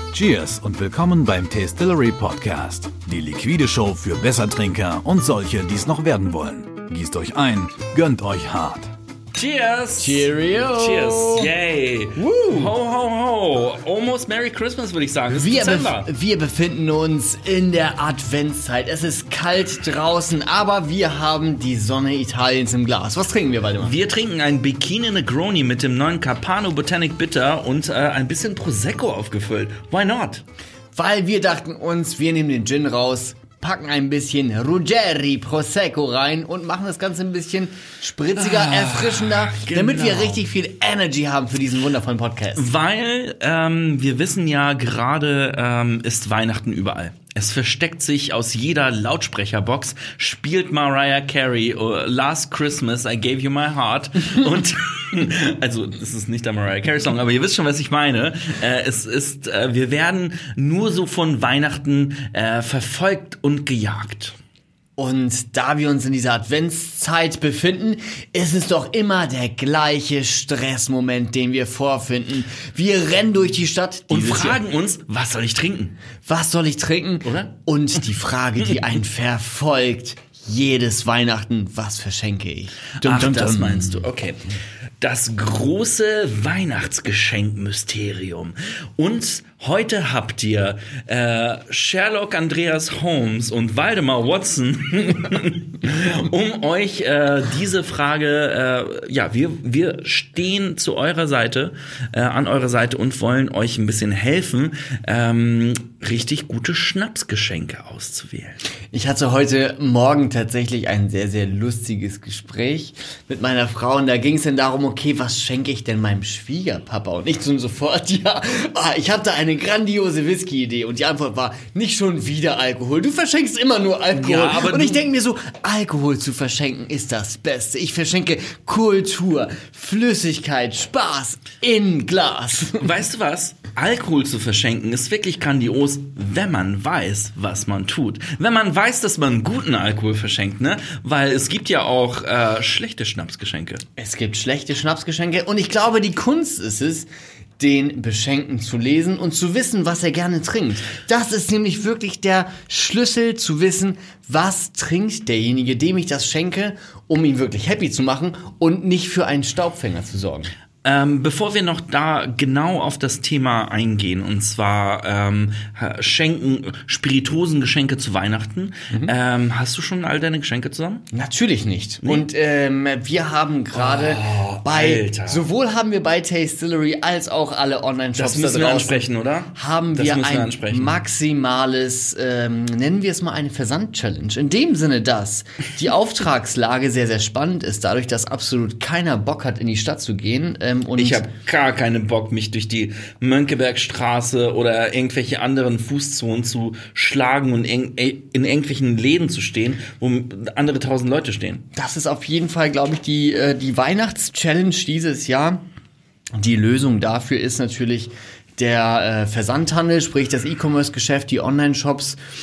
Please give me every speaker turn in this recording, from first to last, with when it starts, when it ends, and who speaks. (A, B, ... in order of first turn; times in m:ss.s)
0:00.1-0:08.9 A
0:09.3-0:16.1 B
0:10.0-0:11.5 C
0:12.2-0:12.7 C
0:15.3-0:23.9 C
0:23.8-0:30.4 B
0:30.9-0:42.6 C
0:38.3-0:40.4 B
0:42.6-1:04.4 B
1:05.0-1:14.6 C
1:14.1-1:15.9 B
1:16.2-1:24.0 C
1:17.2-1:17.5 B
1:23.0-1:24.4 B
1:25.0-1:48.6 B
1:48.9-2:12.9 C
2:04.1-2:05.0 B
2:12.8-2:23.8 B
2:24.0-2:27.1 C
2:27.6-2:40.5 C
2:40.8-2:51.0 B
2:51.1-3:11.2 C
2:53.7-2:55.4 B
2:58.2-3:01.0 B
3:11.0-3:21.6 B
3:21.7-3:25.6 C
3:26.3-3:32.2 C